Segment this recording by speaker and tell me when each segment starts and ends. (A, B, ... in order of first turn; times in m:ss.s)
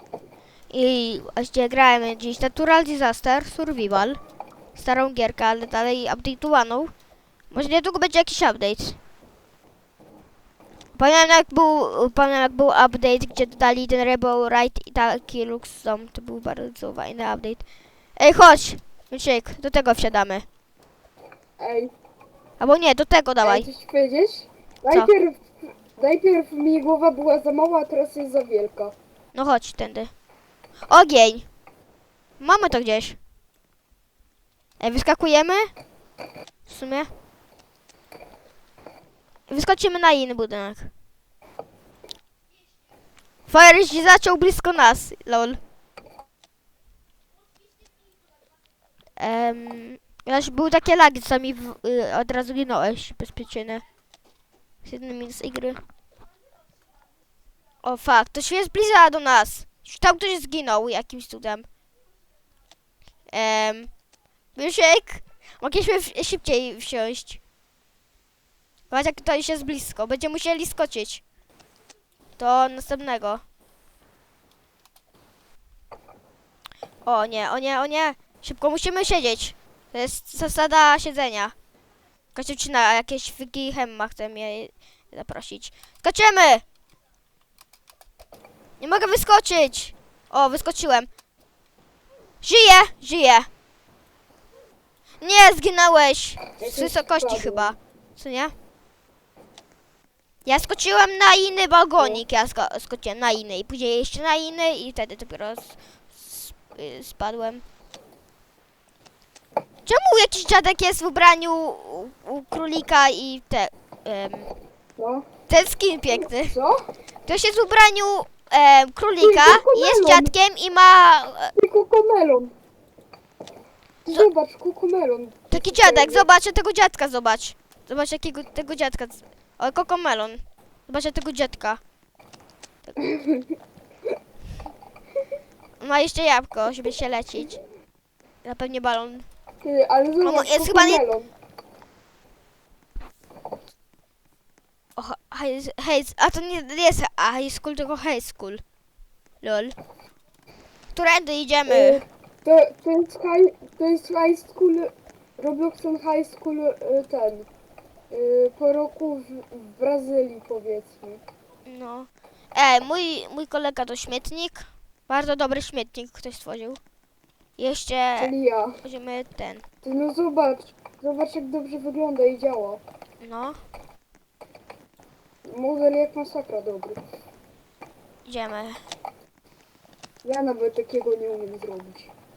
0:00.7-0:04.2 A
0:04.7-0:06.9 A
0:07.5-0:09.0 A
0:10.9-0:17.6 A
0:18.2-0:20.5 A
0:21.6-0:21.9 B
0:22.6-0:23.7 A
0:23.4-0:29.0 B
0:29.3-0:30.1 A
0:30.9-0:31.5 A
0:32.4-0:33.2 A
0:34.8-0:35.7 A
0:36.7-0:37.1 A
0:39.5-0:40.9 A
0:43.5-0:45.6 A
0:49.2-0:53.8 A
0:54.8-0:55.8 A
0:57.8-1:01.6 A
1:03.3-1:03.9 A
1:04.6-1:07.4 A
1:08.9-1:11.2 A
1:12.4-1:13.4 A
1:17.0-1:21.5 A
1:22.3-1:26.6 A
1:28.8-1:31.1 A
1:32.4-1:33.5 A
1:35.2-1:38.5 A
1:36.6-1:37.7 B
1:40.4-1:47.6 A
1:42.0-1:42.2 B
1:49.8-1:54.5 A
1:55.0-1:55.3 B
1:55.5-1:56.5 A
1:56.4-1:56.9 B
1:57.2-2:01.5 A
1:59.2-2:00.3 B
2:01.6-2:02.5 B
2:04.0-2:06.3 B
2:05.5-2:11.8 A
2:13.0-2:13.6 B
2:15.8-2:17.6 A
2:18.4-2:19.2 A
2:19.6-2:21.3 B
2:20.2-2:21.0 A
2:25.0-2:28.6 A
2:29.4-2:29.7 A
2:30.9-2:32.0 A
2:31.7-2:37.5 B
2:38.1-2:41.2 B
2:41.6-2:46.8 A
2:47.6-2:49.6 A
2:48.2-2:48.8 B
2:49.8-2:52.8 B
2:53.2-2:53.6 A
2:55.4-2:57.0 B
2:58.2-2:58.8 A
3:00.2-3:02.1 B